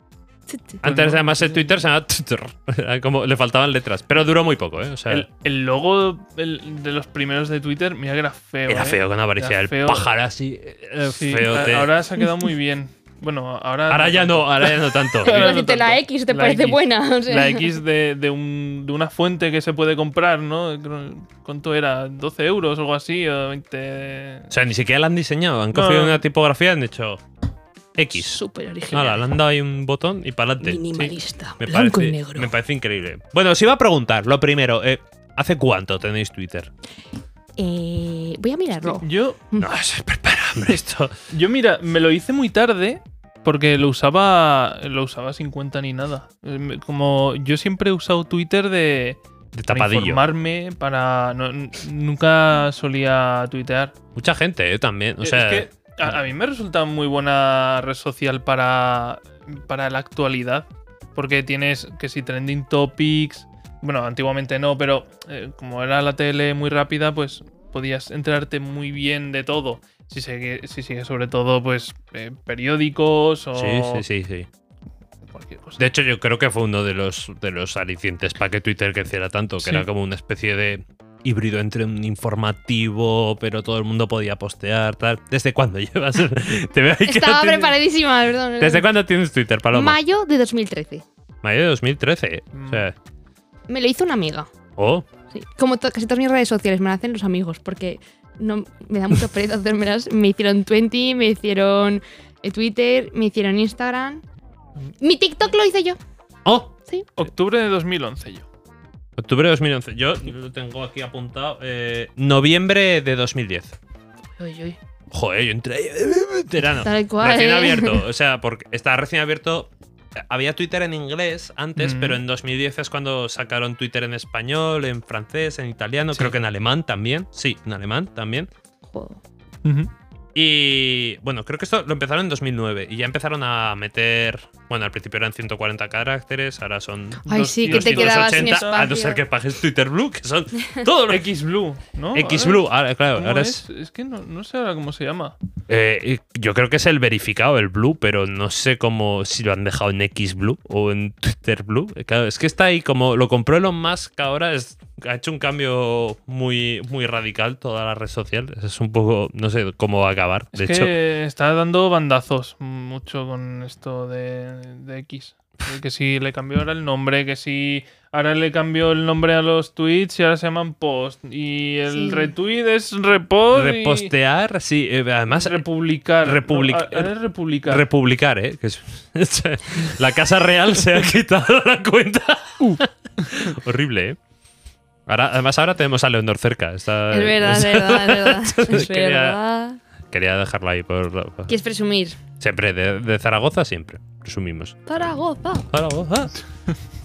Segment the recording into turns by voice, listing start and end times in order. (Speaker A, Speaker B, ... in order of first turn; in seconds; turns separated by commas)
Speaker A: 0.5-0.8, Speaker B: 0.8-5.3, Speaker C: 0.8-1.8, Speaker C: 5.1-10.1, Speaker B: 8.7-11.9, Speaker C: 11.1-24.5, Speaker B: 13.9-15.6, Speaker A: 15.2-17.7, Speaker B: 24.5-27.2, Speaker C: 25.7-26.2, Speaker B: 28.0-28.4, Speaker A: 28.2-29.2, Speaker B: 28.9-30.8, Speaker A: 30.6-32.5, Speaker B: 31.6-36.7, Speaker A: 37.6-39.7, Speaker C: 38.9-39.4, Speaker B: 39.6-41.1, Speaker C: 41.3-53.9, Speaker B: 49.5-50.2, Speaker B: 54.2-55.7, Speaker C: 55.2-74.0, Speaker B: 73.5-74.5, Speaker C: 75.3-75.8, Speaker B: 75.8-87.8, Speaker C: 79.6-79.9, Speaker A: 87.1-88.9, Speaker B: 88.6-90.0, Speaker A: 89.7-91.0, Speaker B: 91.4-93.0, Speaker C: 92.5-92.8, Speaker A: 93.7-94.5, Speaker B: 94.8-95.1, Speaker A: 95.3-104.2, Speaker A: 105.0-106.0, Speaker B: 106.5-106.7, Speaker C: 107.2-108.5, Speaker B: 109.2-113.8, Speaker A: 114.4-114.8, Speaker B: 115.1-128.5, Speaker A: 116.8-118.0, Speaker C: 121.8-122.2, Speaker A: 128.9-129.2, Speaker C: 129.6-129.9, Speaker B: 130.3-141.3, Speaker C: 137.2-138.9, Speaker A: 137.3-139.2, Speaker C: 141.1-145.4, Speaker B: 142.2-143.6, Speaker B: 145.7-160.9, Speaker C: 160.5-174.1, Speaker A: 171.9-172.3, Speaker B: 173.5-175.6, Speaker C: 175.3-177.9, Speaker B: 176.2-177.1, Speaker B: 177.7-184.2, Speaker B: 185.1-189.4, Speaker A: 187.1-189.8, Speaker B: 190.1-191.5, Speaker A: 191.5-192.2, Speaker B: 192.4-194.8, Speaker A: 194.9-195.7, Speaker B: 195.7-196.3